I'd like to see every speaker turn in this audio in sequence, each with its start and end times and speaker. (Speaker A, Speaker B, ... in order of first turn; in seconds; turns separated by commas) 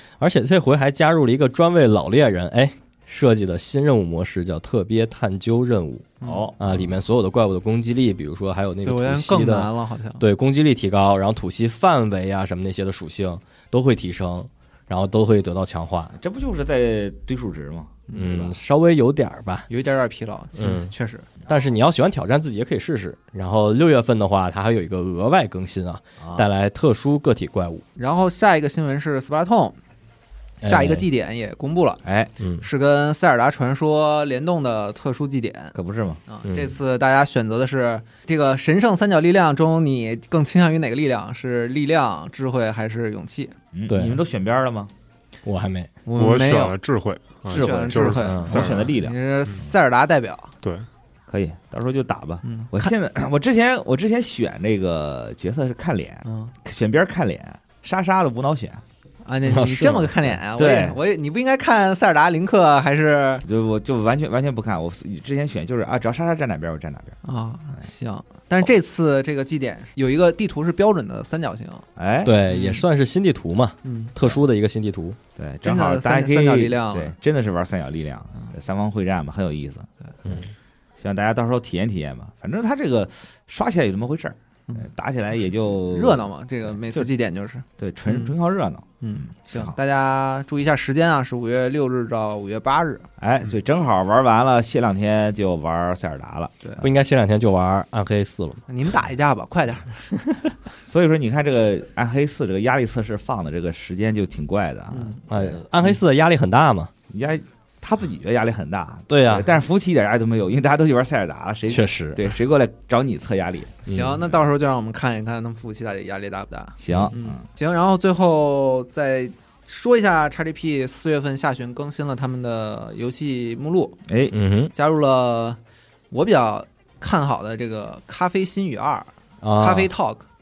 Speaker A: 0.2-6.1, Speaker B: 6.2-6.5, Speaker C: 6.2-6.9, Speaker A: 6.6-16.1, Speaker B: 8.8-10.2, Speaker C: 16.1-18.5, Speaker B: 18.1-18.4, Speaker A: 18.1-19.7, Speaker B: 19.7-21.3, Speaker A: 20.6-20.9, Speaker A: 21.5-27.8, Speaker C: 26.2-26.5, Speaker B: 28.0-29.8, Speaker A: 30.6-31.1, Speaker B: 30.6-32.0, Speaker C: 32.0-32.3, Speaker A: 32.4-32.7, Speaker B: 32.6-35.8, Speaker C: 35.7-36.2, Speaker B: 36.3-43.5, Speaker A: 36.5-36.8, Speaker C: 43.7-44.9, Speaker A: 43.9-44.2, Speaker A: 45.5-45.9, Speaker B: 46.1-46.8, Speaker D: 46.2-49.7, Speaker B: 47.5-50.5, Speaker C: 47.5-49.2, Speaker A: 48.2-48.5, Speaker D: 50.6-50.9, Speaker C: 51.3-58.8, Speaker B: 52.5-52.9, Speaker B: 56.2-56.5, Speaker B: 59.2-63.4, Speaker A: 59.5-60.3, Speaker C: 60.6-61.0, Speaker C: 63.4-67.2, Speaker B: 67.2-71.9, Speaker C: 72.0-72.3, Speaker A: 72.2-75.2, Speaker B: 72.5-72.8, Speaker B: 73.8-74.1, Speaker C: 75.4-79.9, Speaker B: 75.6-77.2, Speaker A: 80.2-80.5, Speaker C: 81.0-86.3, Speaker B: 85.5-88.3, Speaker C: 87.8-89.8, Speaker B: 89.0-93.1, Speaker C: 93.2-96.5, Speaker A: 96.8-98.6, Speaker B: 98.7-100.1, Speaker C: 100.9-105.9, Speaker B: 104.9-105.2, Speaker A: 105.3-106.9, Speaker C: 107.1-113.8, Speaker A: 109.1-109.5, Speaker A: 111.7-112.2, Speaker A: 113.9-114.2, Speaker B: 113.9-124.0, Speaker C: 116.8-117.4, Speaker C: 124.1-124.3, Speaker A: 124.3-124.7, Speaker B: 124.7-125.6, Speaker B: 126.1-130.3, Speaker A: 129.4-129.9